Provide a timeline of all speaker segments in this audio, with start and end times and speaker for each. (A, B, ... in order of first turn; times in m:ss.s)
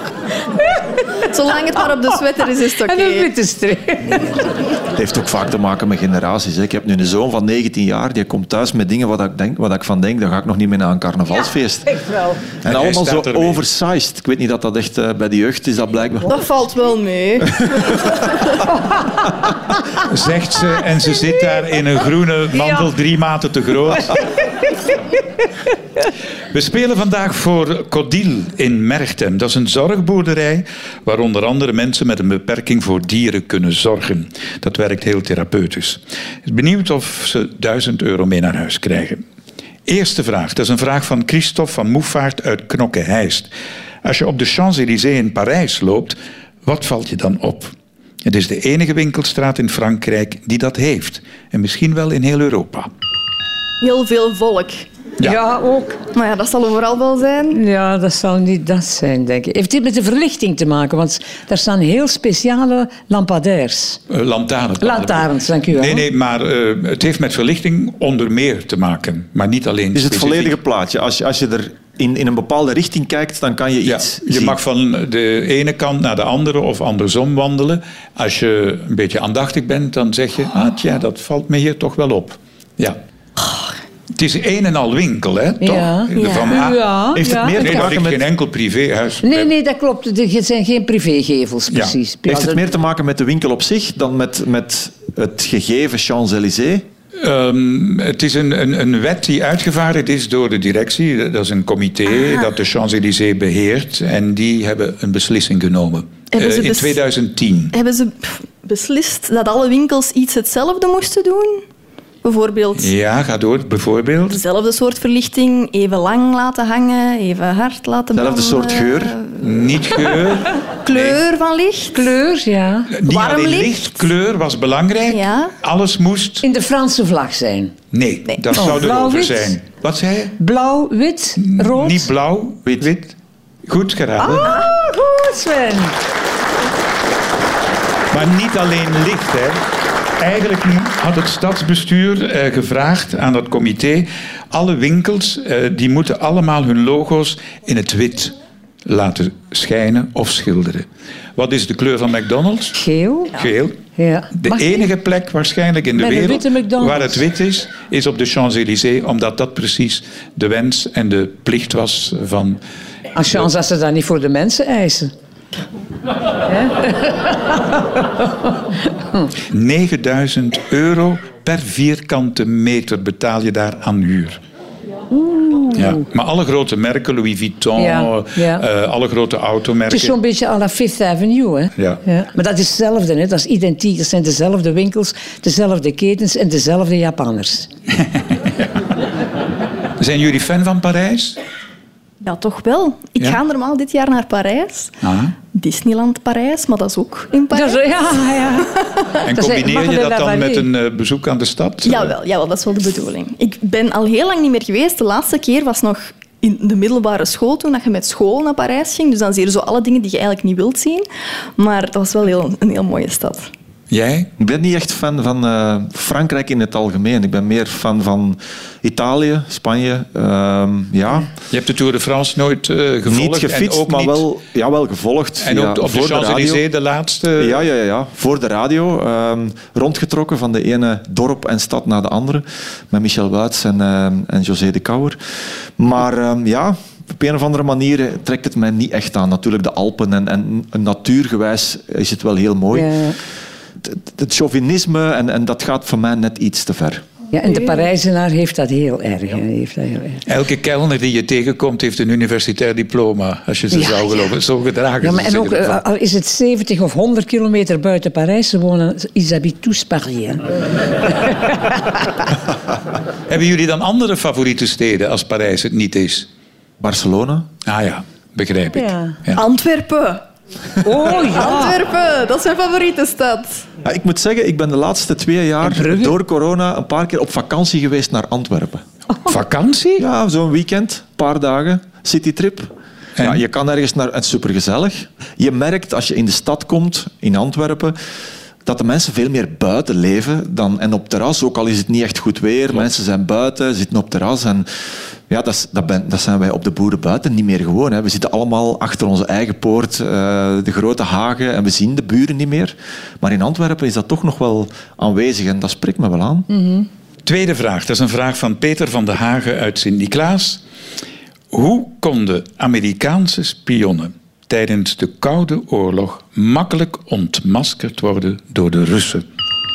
0:01.2-0:03.3 A
0:02.8-0:04.4 B
0:04.9-0:12.1 C
0:12.6-0:16.3 C
0:12.7-0:13.6 D
0:16.2-0:18.4 A
0:20.0-0:24.2 D
0:22.6-0:22.8 B
0:26.5-0:39.2 D
0:39.8-0:43.5 D
0:44.0-0:52.9 D
0:53.8-0:54.8 A
0:55.2-0:56.0 B
0:56.1-0:57.6 A
0:57.5-1:04.0 B
1:04.1-1:10.6 D
1:04.8-1:06.0 B
1:09.9-1:14.6 C
1:13.8-1:23.0 D
1:24.1-1:29.5 D
1:25.6-1:27.9 B
1:27.2-1:28.2 C
1:29.2-1:32.6 B
1:32.3-1:36.8 C
1:37.2-1:47.7 D
1:46.3-1:47.0 A
1:47.7-1:51.6 A
1:52.2-1:52.9 A
1:52.8-1:54.4 D
1:54.3-2:00.3 A
1:58.2-1:59.2 C
1:59.4-2:01.2 D
2:00.8-2:02.1 A
2:01.9-2:02.9 B
2:02.9-2:06.4 D
2:03.0-2:04.1 A
2:05.1-2:05.5 A
2:06.4-2:07.7 B
2:07.9-2:10.3 D
2:08.5-2:09.6 B
2:10.4-2:12.1 B
2:11.4-2:13.2 D
2:13.7-2:14.5 D
2:14.2-2:16.0 B
2:18.1-2:19.6 D
2:20.2-2:32.8 D
2:32.7-2:33.3 B
2:33.3-2:33.8 D
2:34.0-2:34.8 B
2:34.3-2:42.6 D
2:36.0-2:37.2 B
2:43.2-2:45.1 B
2:46.5-2:48.5 B
2:49.5-2:54.4 D
2:55.1-2:56.0 B
2:55.7-3:00.2 D
2:57.8-2:58.7 B
2:59.9-3:07.7 B
3:01.8-3:02.0 D
3:08.0-3:08.7 D
3:10.0-3:11.4 D
3:12.2-3:15.0 A
3:15.0-3:15.3 D
3:15.5-3:17.8 A
3:17.5-3:20.7 B
3:19.2-3:22.1 D
3:21.8-3:31.0 A
3:31.6-3:33.5 A
3:33.9-3:34.3 D
3:34.4-3:41.3 C
3:41.5-3:44.2 D
3:43.0-3:46.6 C
3:45.4-3:47.6 D
3:47.4-3:55.2 C
3:55.8-4:03.0 C
4:02.7-4:03.2 B
4:03.8-4:07.0 C
4:07.3-4:10.2 B
4:10.3-4:15.8 D
4:13.7-4:14.3 B
4:15.0-4:20.5 B
4:21.0-4:22.2 B
4:23.3-4:26.3 D
4:26.8-4:27.5 C
4:27.6-4:29.5 D
4:28.8-4:29.2 B
4:29.4-4:30.2 A
4:30.8-4:31.8 B
4:30.9-4:33.6 A
4:33.8-4:38.8 C
4:35.6-4:36.2 B
4:39.2-4:40.0 D
4:40.0-4:48.0 C
4:48.6-4:54.7 C
4:55.3-5:06.5 C
5:06.5-5:06.9 B
5:07.2-5:10.6 D
5:11.5-5:19.2 D